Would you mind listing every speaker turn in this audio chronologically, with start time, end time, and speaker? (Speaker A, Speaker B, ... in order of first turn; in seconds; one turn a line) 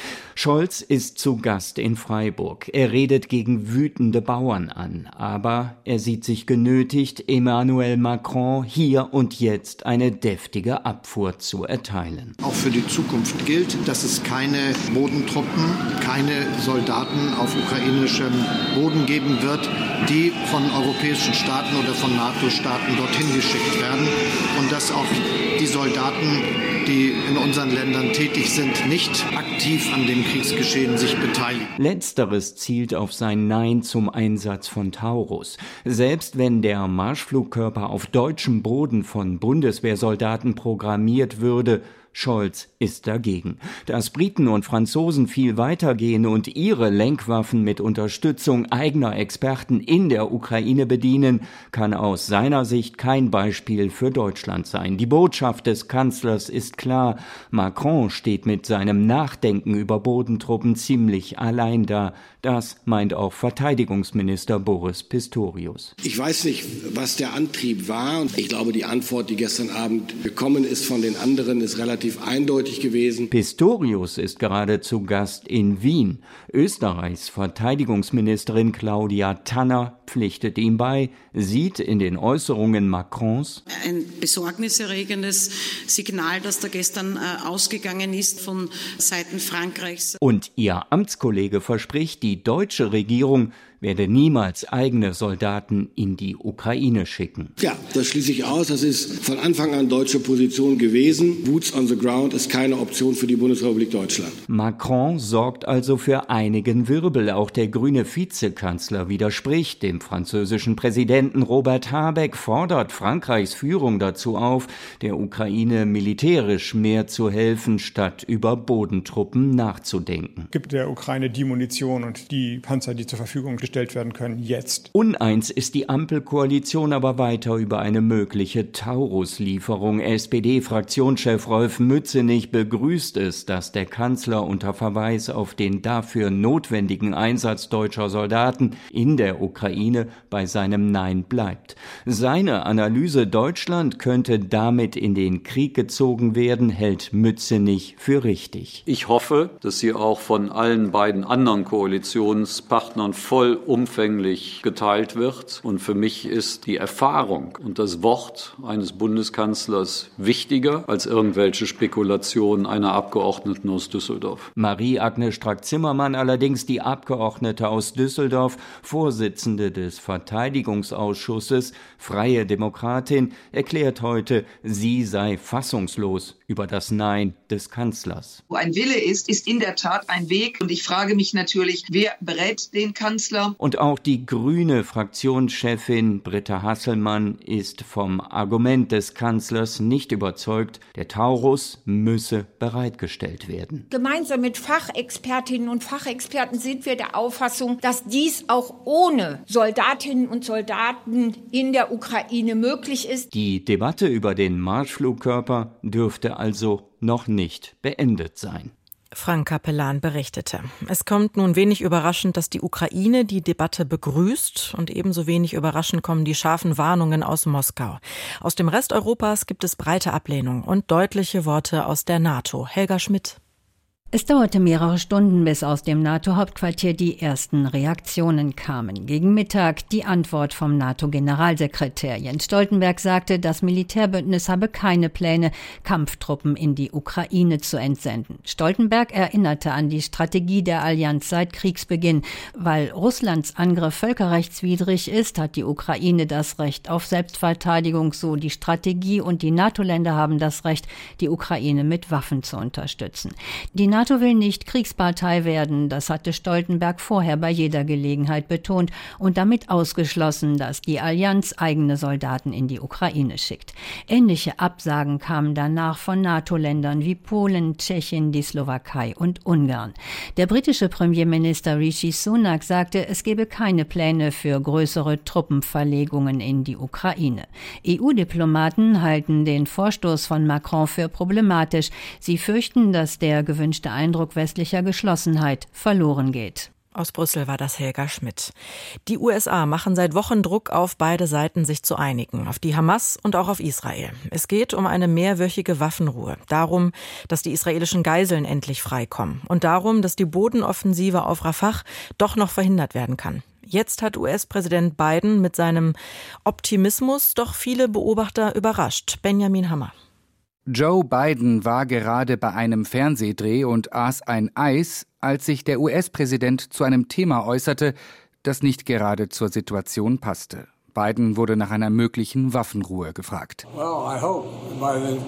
Speaker A: 0.3-12.3
Speaker B: 12.4-31.7
Speaker A: 31.8-65.9
Speaker C: 66.0-73.3
Speaker A: 73.3-83.6
Speaker D: 84.0-85.4
Speaker D: 86.0-86.9
Speaker D: 87.5-90.1
Speaker A: 90.2-97.5
Speaker C: 97.6-104.3
Speaker A: 104.5-120.5
Speaker E: 120.5-124.9
Speaker A: 124.9-148.8
Speaker F: 148.9-164.5
Speaker A: 164.6-178.4
Speaker G: 178.6-183.5
Speaker A: 183.6-193.8
Speaker H: 193.9-203.3
Speaker A: 203.3-208.7
Speaker I: 209.1-223.4
Speaker J: 224.1-286.7
Speaker I: 286.9-288.5
Speaker I: 289.1-309.9
Speaker K: 310.7-323.6